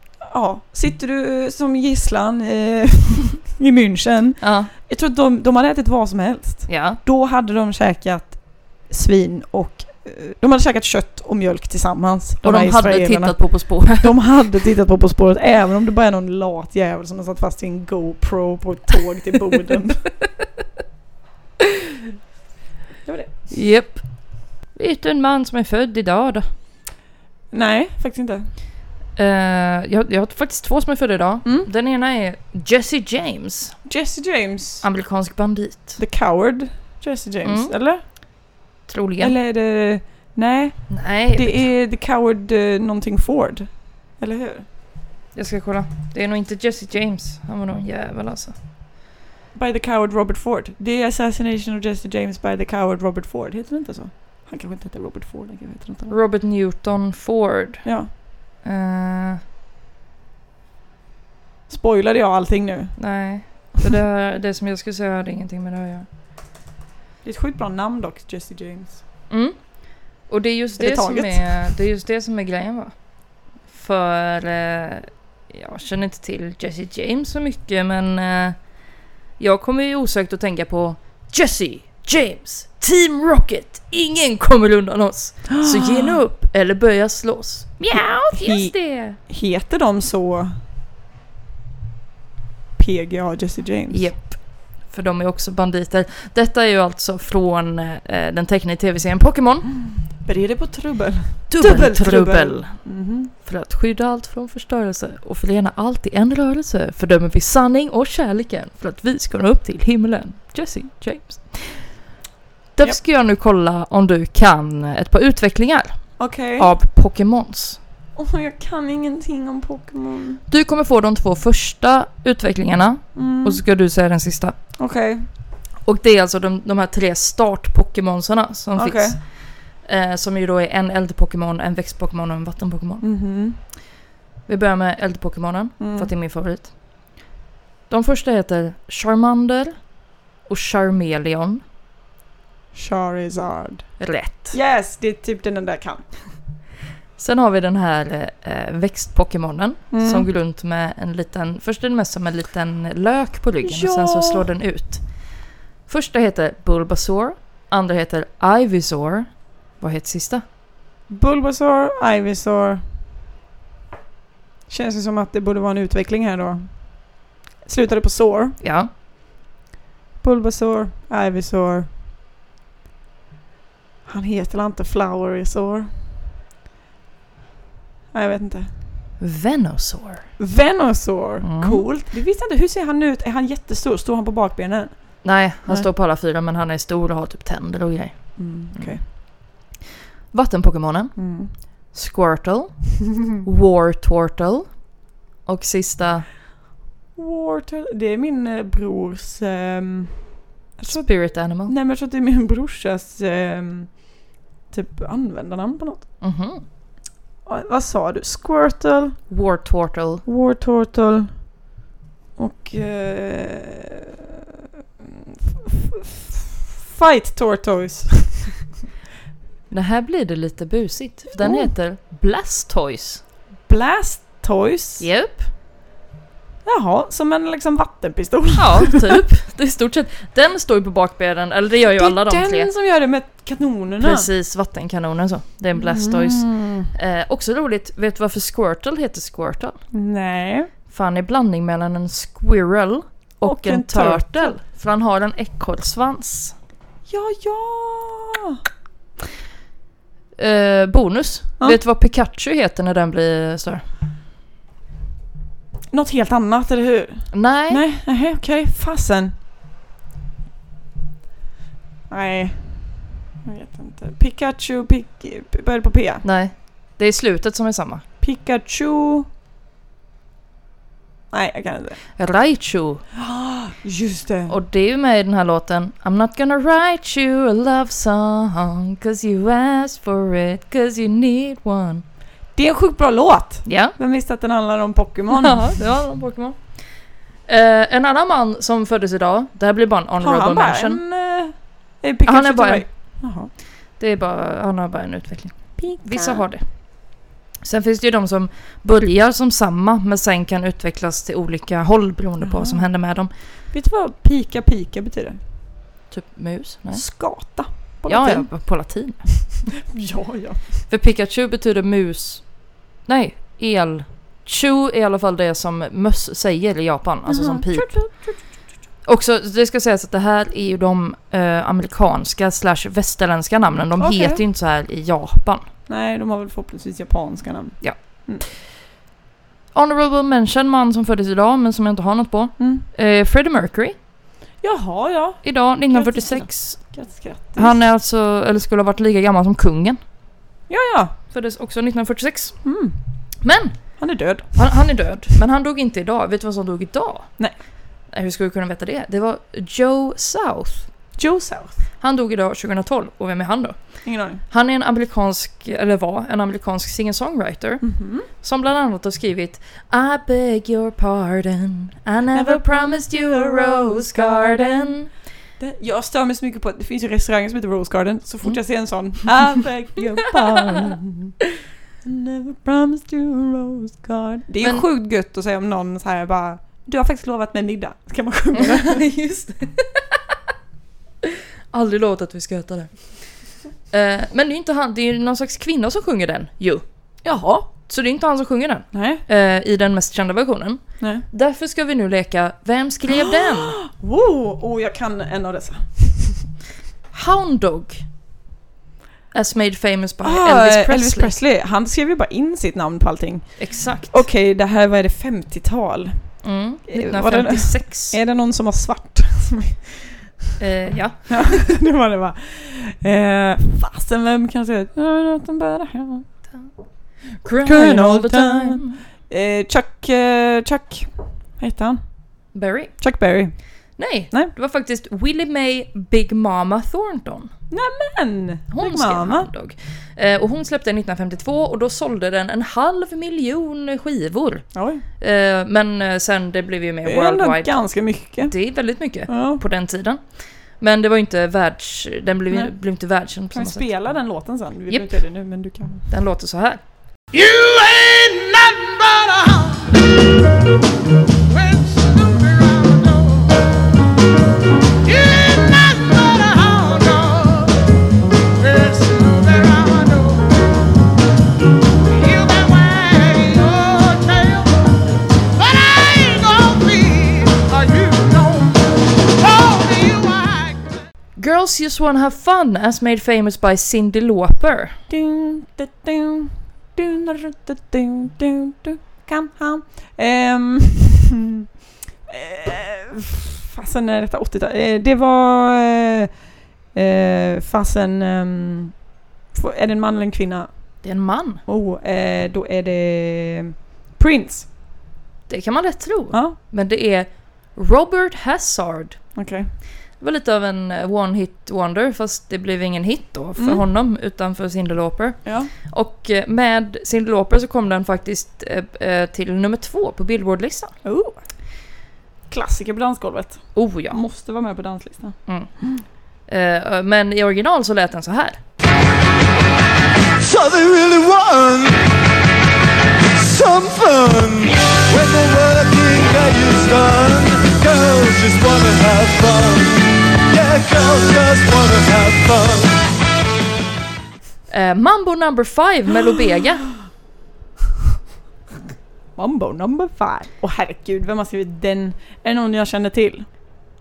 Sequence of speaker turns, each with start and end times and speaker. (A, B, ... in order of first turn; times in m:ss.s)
0:00.2-0:20.1 A
0:04.4-0:04.7 B
0:06.7-0:07.0 B
0:12.4-0:14.1 B
0:23.0-0:23.3 A
0:23.5-0:26.5 B
0:27.5-0:28.5 A
0:29.2-0:33.8 B
0:33.9-0:34.8 A
0:34.8-0:36.0 B
0:36.0-0:38.0 A
0:37.4-0:37.7 B
0:38.9-0:39.3 B
0:39.2-0:44.6 A
0:40.9-0:41.7 B
0:45.3-0:48.5 B
0:49.5-0:56.1 A
0:56.1-0:59.4 B
0:57.8-0:58.1 A
1:01.7-1:03.0 A
1:03.0-1:06.1 B
1:07.2-1:09.0 A
1:09.3-1:13.0 B
1:10.8-1:11.8 A
1:13.7-1:18.6 B
1:19.4-1:29.2 B
1:25.5-1:26.2 A
1:27.9-1:30.5 A
1:32.8-1:34.1 A
1:33.9-1:39.7 B
1:40.0-1:43.3 A
1:41.5-1:51.9 B
1:52.7-1:57.8 B
1:56.2-1:56.7 A
1:58.2-2:00.4 A
2:00.5-2:04.6 B
2:03.1-2:03.6 A
2:04.8-2:05.2 A
2:05.8-2:13.0 B
2:08.7-2:09.2 A
2:13.0-2:13.6 A
2:14.5-2:16.7 B
2:15.8-2:16.1 A
2:17.9-2:19.8 B
2:20.5-2:21.6 B
2:22.7-2:23.9 A
2:24.0-2:24.6 B
2:24.5-2:26.0 A
2:27.2-2:40.4 B
2:29.9-2:30.3 A
2:33.6-2:34.4 A
2:41.1-2:42.8 A
2:44.7-2:48.6 A
2:48.6-2:48.9 B
2:50.2-2:51.9 A
2:54.0-2:55.9 A
2:58.1-2:58.7 A
2:59.2-3:00.3 B
3:00.4-3:05.9 A
3:01.4-3:01.8 B
3:05.2-3:09.2 B
3:08.4-3:09.0 A
3:10.3-3:14.8 B
3:11.2-3:11.5 A
3:15.4-3:16.3 B
3:17.1-3:26.1 A
3:20.9-3:21.7 B
3:26.2-3:26.6 B
3:27.4-3:29.2 A
3:29.3-3:30.2 B
3:30.2-3:31.5 A
3:32.4-3:34.0 A
3:35.5-3:38.6 A
3:39.7-3:43.2 B
3:41.4-3:41.7 A
3:43.6-3:45.1 A
3:45.0-3:45.5 B
3:46.6-3:49.2 A
3:48.6-3:52.7 B
3:51.9-3:54.3 A
3:54.0-3:59.8 B
3:55.7-3:56.9 A
3:59.9-4:00.7 A
4:00.9-4:06.6 B
4:03.4-4:04.6 A
4:07.1-4:08.6 A
4:10.4-4:13.8 B
4:15.9-4:19.3 A
4:17.3-4:17.8 B
4:22.1-4:26.2 A
4:26.2-4:28.0 B
4:28.2-4:29.3 A
4:31.3-4:32.0 A
4:32.2-4:33.0 B
4:33.2-4:34.6 A
4:34.5-4:42.0 B
4:42.6-4:45.7 A
4:43.6-4:43.9 B
4:45.3-4:46.8 B
4:47.4-4:51.0 B
4:50.2-4:53.5 A
4:52.2-4:52.9 B
4:54.0-4:56.9 B
4:55.8-4:56.4 A
4:57.6-5:03.3 B
5:02.4-5:02.8 A
5:03.7-5:05.4 A
5:06.1-5:07.0 B
5:06.9-5:08.5 A
5:08.0-5:09.2 B
5:09.8-5:10.8 A
5:10.9-5:12.5 B
5:13.0-5:18.1 B
5:17.2-5:18.5 A
5:19.0-5:25.7 B
5:24.0-5:24.4 A
5:25.9-5:28.4 A
5:29.7-5:34.0 B
5:32.6-5:32.8 A
5:34.6-5:37.8 A
5:35.4-5:36.8 B
5:37.6-5:40.0 B
5:40.7-5:41.1 A
5:41.3-5:42.6 B
5:42.6-5:43.0 A
5:43.4-5:47.4 B
5:44.0-5:44.9 A
5:48.1-5:50.9 B
5:51.2-5:51.8 A
5:52.0-6:05.1 B
5:54.0-5:54.4 A
5:57.8-5:58.3 A
6:02.3-6:04.7 A
6:05.6-6:11.3 A
6:12.0-6:19.0 A
6:18.5-6:20.4 B
6:21.2-6:23.4 B
6:23.9-6:26.8 B
6:27.2-6:27.7 A
6:27.8-6:33.8 B
6:28.9-6:29.2 A
6:31.0-6:31.2 A
6:33.1-6:36.4 A
6:37.1-6:38.0 B
6:39.3-6:41.3 B
6:40.2-6:50.1 A
6:43.6-6:44.2 B
6:46.4-6:48.2 B
6:50.6-6:51.6 B
6:51.3-6:56.2 A
6:57.2-6:59.0 B
6:57.6-7:02.0 A
7:02.5-7:02.9 B
7:03.0-7:03.5 A
7:04.0-7:07.5 B
7:07.7-7:09.5 A
7:08.7-7:17.8 B
7:14.7-7:15.0 A
7:17.0-7:18.5 A
7:18.4-7:23.9 B
7:19.3-7:19.6 A
7:23.5-7:26.0 A
7:24.9-7:25.2 B
7:26.1-7:26.8 B
7:27.3-7:30.0 C
7:31.5-7:33.6 C
7:35.0-7:37.8 C
7:38.6-7:40.8 C
7:42.1-7:44.8 C
7:45.6-7:51.0 C
7:51.4-7:55.0 B
7:55.1-8:01.3 A
8:02.3-8:06.3 A
8:06.9-8:09.0 A
8:09.5-8:11.0 A
8:11.0-8:11.6 B
8:11.6-8:14.7 A
8:15.5-8:19.3 B
8:16.3-8:16.6 A
8:19.4-8:19.7 A
8:20.2-8:30.9 B
8:23.6-8:23.8 A
8:25.4-8:25.7 A
8:31.0-8:31.4 A
8:32.5-8:35.4 A
8:33.7-8:34.2 B
8:35.4-8:35.8 B
8:36.4-8:38.6 B
8:40.4-8:42.0 D
8:43.3-8:53.0 D
8:54.7-8:56.9 B
8:59.4-9:03.4 A